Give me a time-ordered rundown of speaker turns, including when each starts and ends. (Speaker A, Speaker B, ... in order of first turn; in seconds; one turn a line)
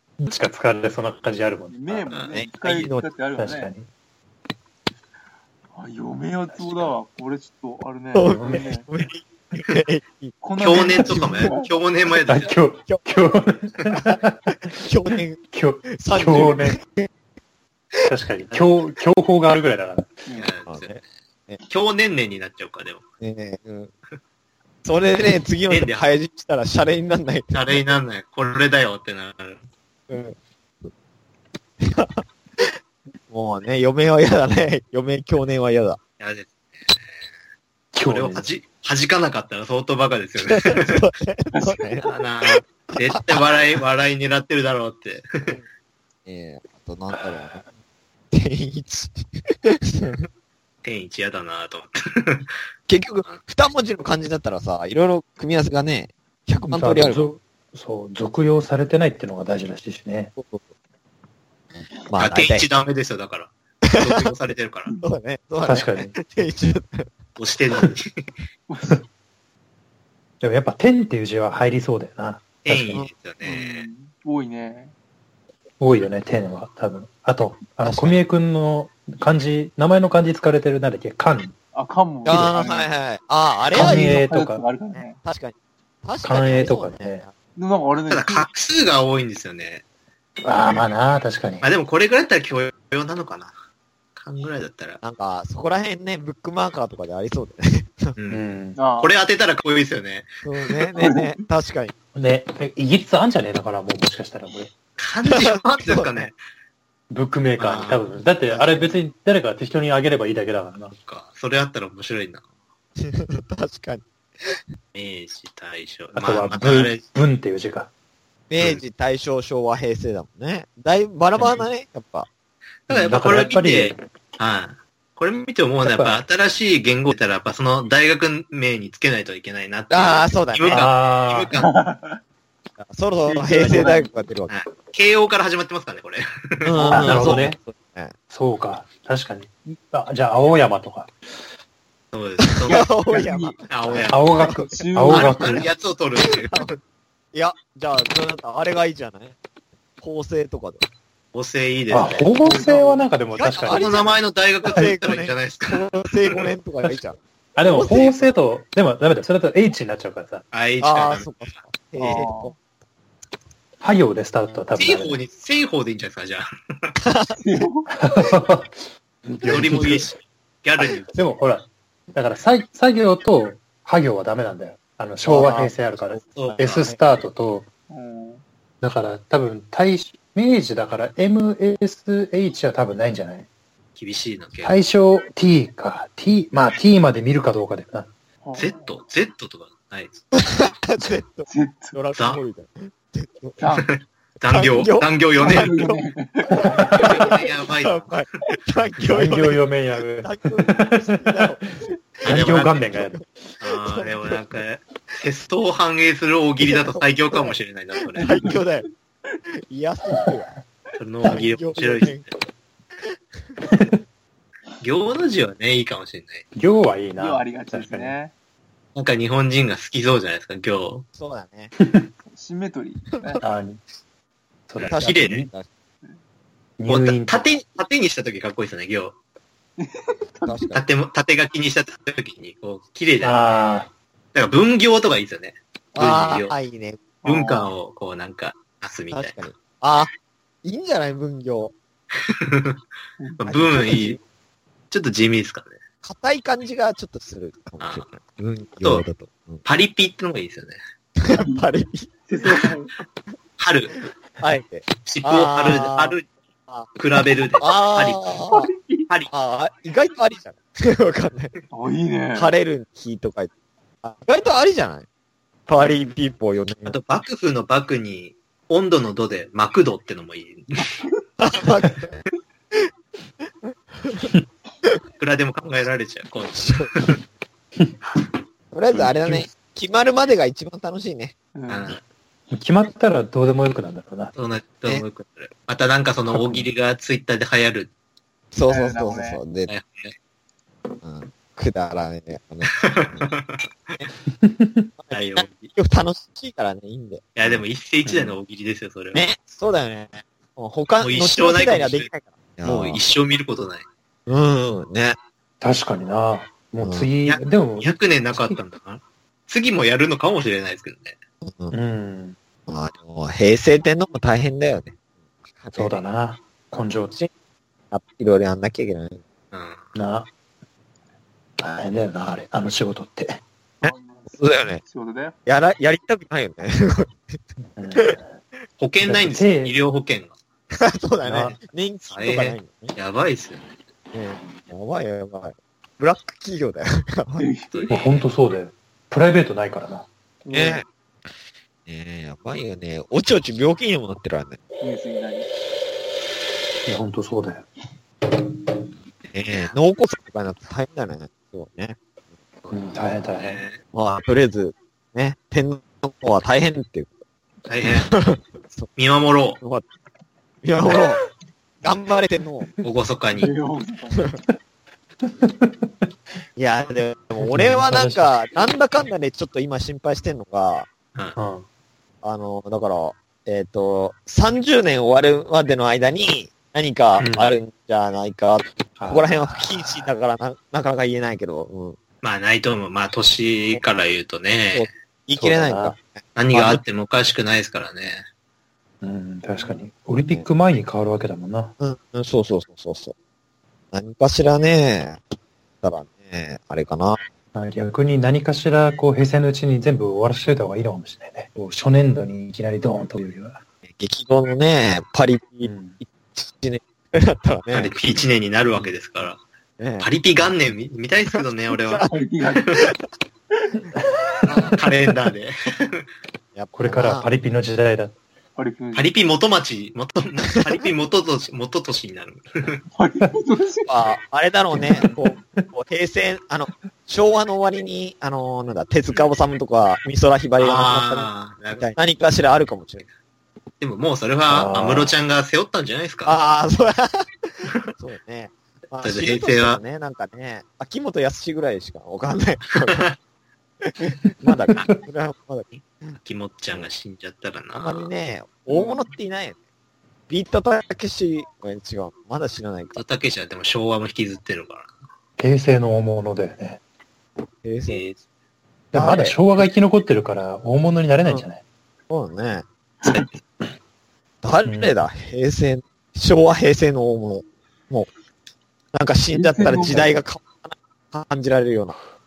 Speaker A: 0.2-2.1
Speaker B: 1.7-3.7
Speaker C: 2.1-2.4
Speaker D: 2.3-3.1
Speaker A: 3.4-3.9
Speaker B: 5.7-8.9
Speaker A: 6.6-6.9
Speaker D: 8.1-11.5
Speaker A: 8.2-8.7
Speaker B: 10.4-11.7
Speaker C: 10.6-12.5
Speaker D: 12.2-13.0
Speaker A: 12.3-14.8
Speaker D: 13.9-15.4
Speaker A: 15.4-16.8
Speaker D: 15.9-17.1
Speaker A: 18.1-20.2
Speaker B: 20.2-20.5
Speaker C: 20.3-21.0
Speaker D: 20.7-21.6
Speaker C: 21.6-23.0
Speaker D: 23.2-23.9
Speaker D: 24.8-27.9
Speaker C: 25.7-26.0
Speaker C: 27.5-29.6
Speaker D: 30.1-30.9
Speaker D: 31.8-32.8
Speaker D: 33.3-36.0
Speaker C: 36.2-37.2
Speaker A: 37.9-38.5
Speaker C: 38.0-41.0
Speaker D: 40.4-43.7
Speaker B: 41.5-42.1
Speaker C: 42.0-45.6
Speaker D: 46.2-47.6
Speaker A: 47.1-47.6
Speaker D: 48.3-50.3
Speaker C: 50.8-52.5
Speaker D: 52.9-57.3
Speaker A: 56.7-60.3
Speaker D: 60.4-60.7
Speaker D: 62.1-62.7
Speaker C: 62.2-64.9
Speaker D: 63.9-67.2
Speaker A: 65.6-66.2
Speaker C: 67.4-68.2
Speaker B: 68.7-69.0
Speaker A: 70.4-72.9
Speaker C: 72.6-73.9
Speaker D: 72.7-73.1
Speaker B: 73.4-74.9
Speaker A: 75.8-81.5
Speaker D: 77.8-78.2
Speaker B: 81.7-82.9
Speaker D: 82.2-84.2
Speaker A: 83.7-84.6
Speaker B: 83.7-85.2
Speaker D: 84.9-87.3
Speaker A: 86.2-87.2
Speaker B: 87.5-88.5
Speaker C: 88.1-89.8
Speaker A: 90.4-91.7
Speaker C: 91.6-93.5
Speaker C: 94.2-95.0
Speaker D: 95.0-98.1
Speaker C: 98.2-98.4
Speaker A: 98.3-98.8
Speaker B: 98.8-99.1
Speaker C: 99.0-100.3
Speaker D: 100.4-101.9
Speaker B: 100.9-101.4
Speaker A: 102.2-104.7
Speaker C: 105.0-106.4
Speaker D: 105.3-106.3
Speaker A: 107.1-110.9
Speaker C: 107.6-108.1
Speaker D: 108.5-108.9
Speaker C: 110.9-112.4
Speaker D: 113.0-114.6
Speaker C: 114.9-117.0
Speaker A: 116.1-117.9
Speaker D: 118.5-122.3
Speaker C: 122.9-131.7
Speaker A: 122.9-124.0
Speaker A: 125.8-126.2
Speaker D: 129.9-130.9
Speaker A: 130.7-131.5
Speaker B: 131.5-132.2
Speaker D: 132.8-134.5
Speaker B: 133.2-134.1
Speaker C: 133.6-133.9
Speaker C: 134.5-137.5
Speaker D: 136.6-138.1
Speaker A: 136.9-137.6
Speaker A: 138.3-141.1
Speaker C: 142.1-142.9
Speaker D: 142.5-144.8
Speaker B: 142.7-143.6
Speaker C: 143.7-144.5
Speaker A: 144.1-145.7
Speaker B: 144.5-145.6
Speaker C: 145.1-146.7
Speaker D: 146.2-146.8
Speaker D: 147.3-149.3
Speaker D: 150.0-150.8
Speaker C: 151.3-152.3
Speaker A: 151.9-154.1
Speaker B: 152.3-153.1
Speaker D: 153.3-158.3
Speaker C: 153.6-156.5
Speaker A: 157.6-160.4
Speaker C: 160.5-162.2
Speaker D: 160.8-162.5
Speaker B: 162.0-162.6
Speaker A: 163.8-165.2
Speaker C: 164.7-166.9
Speaker D: 167.0-167.3
Speaker B: 167.4-167.9
Speaker A: 167.9-170.1
Speaker C: 169.5-171.2
Speaker D: 169.5-169.9
Speaker A: 171.1-177.7
Speaker D: 175.2-175.7
Speaker C: 176.1-176.9
Speaker B: 177.9-178.4
Speaker A: 178.8-183.5
Speaker C: 183.9-184.8
Speaker A: 184.6-188.1
Speaker B: 188.4-188.9
Speaker C: 188.6-190.3
Speaker D: 190.3-193.6
Speaker B: 191.5-192.0
Speaker C: 192.2-192.4
Speaker B: 193.6-193.9
Speaker C: 193.8-195.7
Speaker D: 194.5-196.0
Speaker B: 195.4-197.1
Speaker D: 196.6-199.6
Speaker A: 196.6-197.1
Speaker C: 196.9-198.2
Speaker A: 199.0-201.4
Speaker D: 200.2-204.6
Speaker C: 202.2-202.8
Speaker A: 202.2-203.3
Speaker C: 203.6-208.5
Speaker D: 206.6-207.6
Speaker D: 208.1-208.8
Speaker B: 208.2-209.4
Speaker D: 209.7-210.5
Speaker C: 211.0-212.3
Speaker D: 211.2-212.3
Speaker D: 213.0-213.7
Speaker A: 213.6-213.9
Speaker C: 214.8-216.4
Speaker A: 216.5-218.2
Speaker B: 217.1-218.3
Speaker C: 218.9-221.1
Speaker D: 221.1-221.7
Speaker A: 221.8-222.1
Speaker B: 222.2-223.4
Speaker A: 223.4-223.8
Speaker A: 224.7-225.5
Speaker C: 224.8-225.5
Speaker D: 224.8-225.7
Speaker A: 226.8-227.5
Speaker C: 226.9-229.1
Speaker B: 229.8-230.7
Speaker D: 230.4-230.8
Speaker C: 230.7-233.4
Speaker A: 233.2-233.9
Speaker C: 234.3-236.5
Speaker D: 235.9-237.0
Speaker B: 237.2-237.7
Speaker C: 237.2-239.4
Speaker D: 239.1-240.1
Speaker D: 240.6-241.7
Speaker C: 242.1-242.8
Speaker B: 243.2-243.5
Speaker C: 243.4-244.2
Speaker D: 243.4-244.2
Speaker C: 244.9-245.8
Speaker D: 246.0-249.6
Speaker C: 247.8-248.1
Speaker C: 248.8-249.1
Speaker C: 249.6-250.8
Speaker D: 251.2-252.1
Speaker B: 251.4-251.7
Speaker B: 252.3-252.9
Speaker C: 253.6-254.0
Speaker D: 254.4-256.2
Speaker C: 255.0-256.3
Speaker C: 256.9-258.2
Speaker D: 257.6-258.7
Speaker B: 258.5-259.1
Speaker D: 259.3-261.5
Speaker B: 261.7-262.5
Speaker D: 262.3-263.5
Speaker D: 264.0-265.1
Speaker D: 265.7-266.9
Speaker C: 266.9-271.0
Speaker D: 271.4-272.2
Speaker D: 273.6-274.3
Speaker C: 275.2-277.2
Speaker D: 276.5-276.9
Speaker D: 278.7-281.3
Speaker A: 278.9-279.5
Speaker B: 281.5-281.9
Speaker C: 281.7-282.0
Speaker A: 282.5-284.3
Speaker C: 284.3-287.9
Speaker A: 286.3-286.7
Speaker D: 288.5-289.7
Speaker B: 288.7-289.4
Speaker C: 289.7-290.1
Speaker D: 291.0-293.3
Speaker C: 292.7-294.0
Speaker A: 294.3-294.9
Speaker D: 295.0-297.6
Speaker C: 295.1-295.7
Speaker C: 297.4-299.2
Speaker A: 298.0-298.4
Speaker D: 299.1-303.0
Speaker C: 301.0-302.1
Speaker C: 302.6-303.9
Speaker D: 304.3-305.2
Speaker A: 305.6-308.6
Speaker D: 306.8-307.1
Speaker C: 307.2-311.2
Speaker D: 311.4-311.8
Speaker A: 311.7-312.4
Speaker D: 312.7-315.0
Speaker D: 315.5-316.0
Speaker A: 315.7-317.1
Speaker D: 317.9-319.2
Speaker C: 319.5-319.9
Speaker A: 319.9-320.3
Speaker A: 321.6-323.4
Speaker B: 323.8-325.4
Speaker D: 323.8-324.8
Speaker D: 325.4-327.4
Speaker A: 327.6-328.4
Speaker C: 328.8-330.3
Speaker A: 329.0-329.8
Speaker D: 330.7-333.0
Speaker A: 331.2-331.6
Speaker C: 332.0-333.7
Speaker D: 334.1-337.5
Speaker B: 337.4-337.9
Speaker C: 337.7-338.3
Speaker A: 337.9-340.1
Speaker B: 340.4-340.8
Speaker D: 340.5-341.3
Speaker D: 341.9-344.6
Speaker B: 344.8-345.5
Speaker A: 346.9-347.7
Speaker D: 349.3-352.0
Speaker A: 352.7-353.6
Speaker C: 353.4-353.8
Speaker D: 353.9-357.1
Speaker C: 357.7-358.1
Speaker D: 357.9-358.9
Speaker C: 358.9-359.6
Speaker D: 359.6-359.9
Speaker D: 360.6-361.2
Speaker D: 361.8-362.7
Speaker C: 362.8-363.5
Speaker B: 363.4-364.4
Speaker A: 365.2-365.9
Speaker D: 366.6-370.9
Speaker A: 367.4-368.4
Speaker A: 371.4-371.6
Speaker D: 372.2-382.0
Speaker A: 377.2-377.5
Speaker A: 379.0-380.1
Speaker C: 382.2-384.9
Speaker D: 384.7-386.8
Speaker A: 385.4-385.9
Speaker C: 386.4-388.2
Speaker A: 389.0-391.7
Speaker D: 390.1-390.5
Speaker D: 391.8-393.1
Speaker D: 393.9-395.2
Speaker D: 395.8-397.2
Speaker A: 397.5-403.6
Speaker D: 403.8-407.9
Speaker A: 405.6-406.0
Speaker C: 407.7-409.4
Speaker D: 409.8-410.5
Speaker C: 410.0-412.1
Speaker D: 411.3-412.1
Speaker B: 412.0-412.8
Speaker A: 413.9-414.7
Speaker D: 414.4-414.7
Speaker C: 414.7-416.1
Speaker D: 416.5-417.3
Speaker A: 416.7-418.1
Speaker B: 418.6-419.1
Speaker C: 418.9-422.8
Speaker B: 422.9-424.0
Speaker D: 423.9-433.0
Speaker A: 424.7-425.6
Speaker C: 430.6-431.9
Speaker C: 433.8-436.4
Speaker A: 434.5-435.1
Speaker D: 436.2-443.1
Speaker C: 439.0-439.8
Speaker C: 442.9-443.1
Speaker D: 443.8-446.2
Speaker A: 444.6-445.0
Speaker C: 446.2-448.1
Speaker D: 447.7-449.6
Speaker B: 448.7-449.0
Speaker D: 450.3-453.0
Speaker C: 452.9-454.9
Speaker A: 455.4-456.8
Speaker D: 457.6-458.0
Speaker C: 457.9-458.2
Speaker A: 458.9-461.6
Speaker D: 458.9-459.7
Speaker D: 462.1-462.6
Speaker B: 463.0-463.3
Speaker D: 464.4-468.1
Speaker A: 464.6-464.9
Speaker D: 468.9-471.9
Speaker B: 469.3-470.2